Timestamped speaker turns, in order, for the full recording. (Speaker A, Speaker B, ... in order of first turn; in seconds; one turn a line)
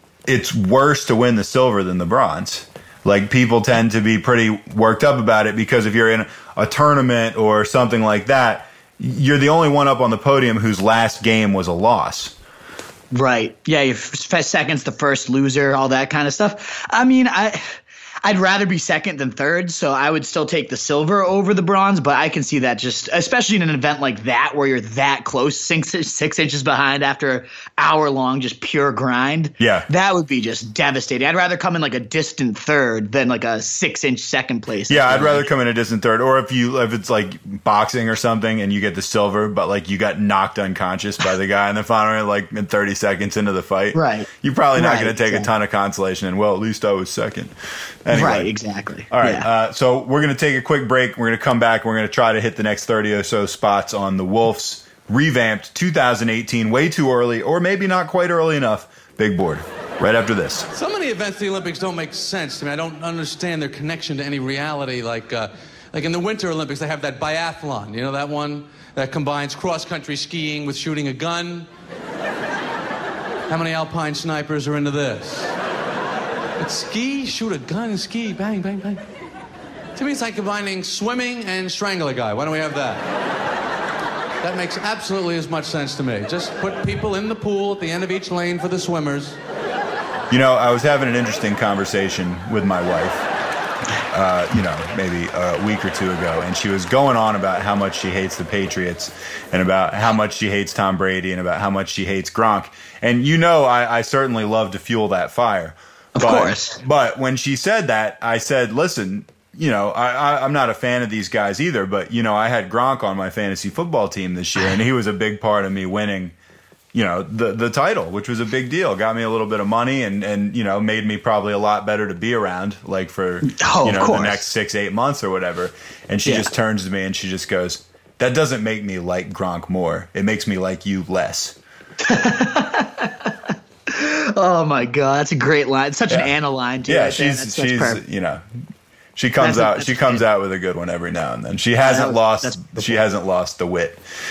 Speaker A: 0.3-12.3
Speaker B: 13.1-35.5
Speaker A: 29.6-29.9
Speaker A: 34.9-47.5
Speaker B: 43.9-45.5
Speaker A: 48.0-48.5
Speaker B: 48.1-49.5
Speaker A: 49.1-60.7
Speaker C: 60.7-71.7
Speaker C: 73.5-75.5
Speaker C: 76.6-79.0
Speaker C: 80.0-83.0
Speaker C: 84.4-89.4
Speaker A: 90.3-93.2
Speaker A: 94.1-116.3
Speaker B: 106.2-106.8
Speaker A: 116.9-131.6
Speaker B: 123.4-124.4
Speaker B: 132.0-133.3
Speaker B: 133.9-138.0
Speaker A: 136.9-138.4
Speaker A: 139.2-144.0
Speaker B: 139.4-140.2
Speaker B: 141.8-142.9